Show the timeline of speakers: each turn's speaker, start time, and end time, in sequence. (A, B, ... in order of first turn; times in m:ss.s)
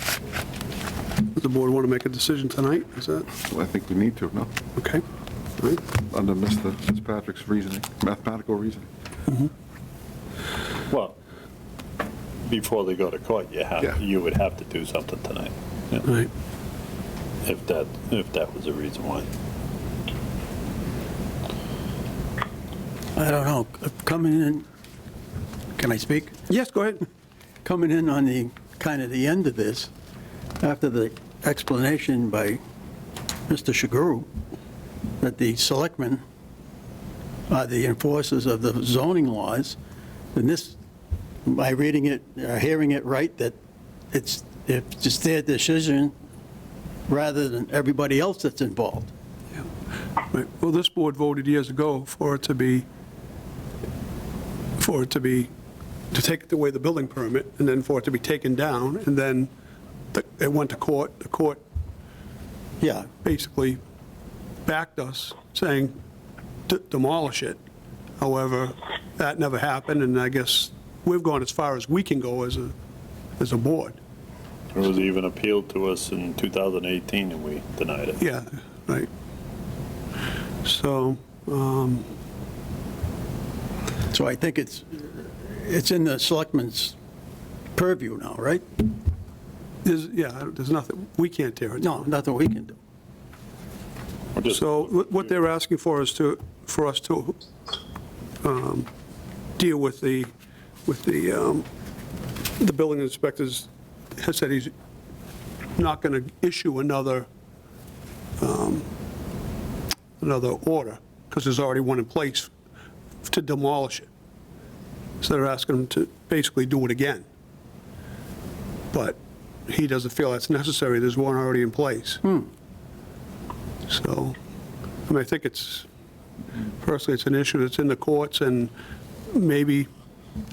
0:01.3-0:03.3 A
0:03.5-0:04.5 B
0:04.8-0:05.0 A
0:06.0-0:08.9 B
0:10.9-0:11.2 C
0:12.5-0:16.1 C
0:17.4-0:19.3 C
0:23.2-0:24.7 D
0:25.8-0:26.4 D
0:26.5-0:27.0 A
0:27.6-0:29.9 D
0:30.6-0:32.6 D
0:33.5-0:34.3 D
0:35.2-0:36.2 D
0:37.5-0:39.8 D
0:40.3-0:40.8 D
0:41.4-0:43.6 D
0:44.1-0:46.2 D
0:47.1-0:49.1 D
0:50.3-0:52.9 A
0:54.8-0:55.5 A
0:56.1-0:59.5 A
1:00.1-1:01.6 A
1:02.8-1:03.1 D
1:03.2-1:03.8 A
1:04.7-1:05.9 A
1:06.7-1:07.6 A
1:08.2-1:12.7 A
1:13.4-1:14.0 A
1:14.8-1:18.2 C
1:18.2-1:19.1 A
1:20.6-1:22.1 A
1:24.1-1:27.0 D
1:27.8-1:28.8 D
1:29.8-1:32.1 A
1:31.8-1:32.8 D
1:34.4-1:35.2 C
1:34.5-1:37.4 A
1:38.4-1:38.9 A
1:39.6-1:40.3 A
1:40.9-1:41.7 A
1:42.6-1:44.7 A
1:45.8-1:47.3 A
1:48.4-1:48.9 A
1:50.2-1:52.5 A
1:53.2-1:54.1 A
1:55.2-1:57.3 A
1:58.9-2:02.2 A
2:03.9-2:04.4 A
2:05.1-2:05.9 A
2:06.8-2:08.7 A
2:09.3-2:09.9 A